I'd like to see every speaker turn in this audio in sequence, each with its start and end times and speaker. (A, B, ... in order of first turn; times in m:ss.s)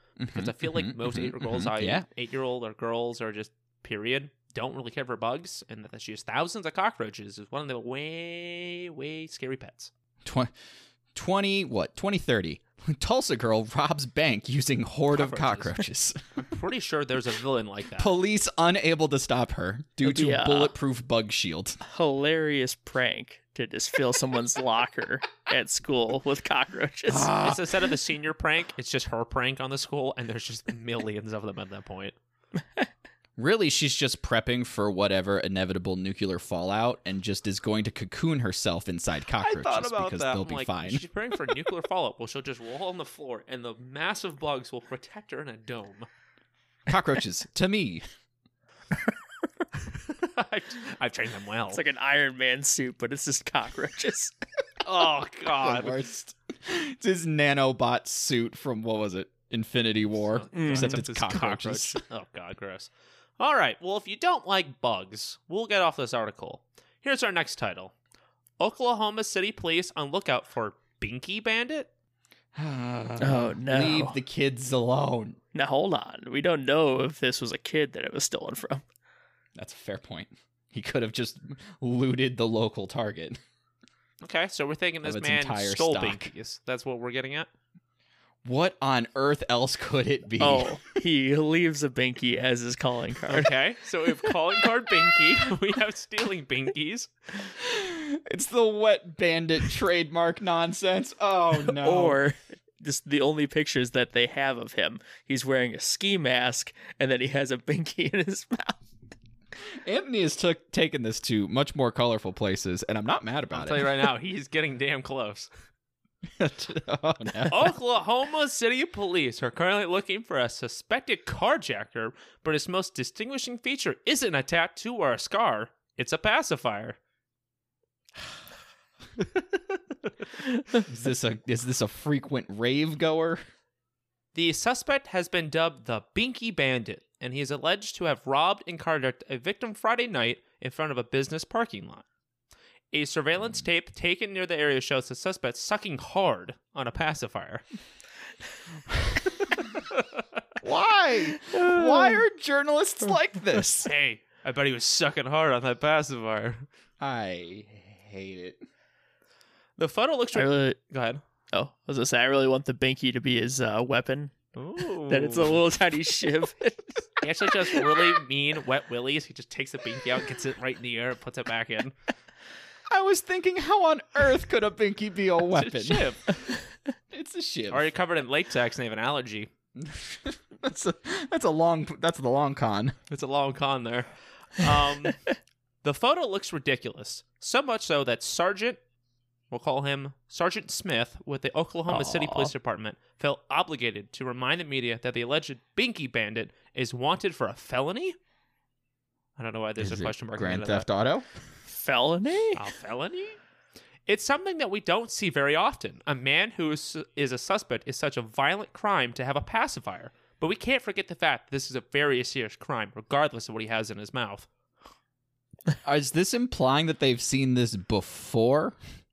0:00.2-0:02.0 A
0:00.3-0:09.9 B
0:10.2-0:10.5 A
0:11.1-0:16.2 A
0:15.1-0:15.8 B
0:16.4-0:18.1 B
0:18.0-0:21.8 A
0:20.0-0:20.7 C
0:21.8-0:27.3 C
0:27.1-0:27.9 A
0:27.4-0:32.2 B
0:33.4-0:41.0 A
0:39.4-0:46.1 B
0:46.9-0:48.0 A
0:49.8-0:51.8 B
0:51.7-0:54.3 C
0:54.8-0:56.0 B
0:55.5-1:02.0 A
1:00.1-1:07.9 B
1:00.5-1:01.0 C
1:08.6-1:11.9 B
1:12.5-1:15.4 A
1:13.2-1:14.2 C
1:15.5-1:18.8 C
1:19.6-1:23.4 A
1:24.2-1:27.5 B
1:25.0-1:26.3 A
1:28.4-1:30.8 A
1:30.4-1:33.5 C
1:33.3-1:37.1 B
1:37.6-1:42.2 A
1:41.6-1:48.8 C
1:49.7-1:54.1 A
1:53.5-1:55.5 B
1:56.3-1:57.7 A
1:57.5-2:07.0 B
2:10.7-2:13.4 A
2:14.3-2:22.0 B
2:22.9-2:27.6 B
2:29.7-2:30.2 B
2:30.6-2:33.9 A
2:31.4-2:32.2 C
2:33.8-2:36.6 B
2:37.0-2:38.6 A
2:39.8-2:41.2 B
2:40.3-2:40.8 C
2:41.5-2:44.3 C
2:44.6-2:45.6 B
2:45.0-2:47.1 C
2:47.2-2:51.9 B
2:47.6-2:48.1 C
2:52.9-2:56.1 A
2:55.5-2:56.4 B
2:57.1-2:57.9 A
2:57.7-2:59.5 B
2:59.8-3:03.0 A
3:03.1-3:05.2 B
3:05.8-3:08.8 B
3:09.5-3:18.2 B
3:12.0-3:12.5 C
3:19.4-3:20.9 B
3:19.8-3:21.3 A
3:21.7-3:22.6 C
3:22.5-3:23.4 B
3:24.1-3:34.5 B
3:35.8-3:38.8 A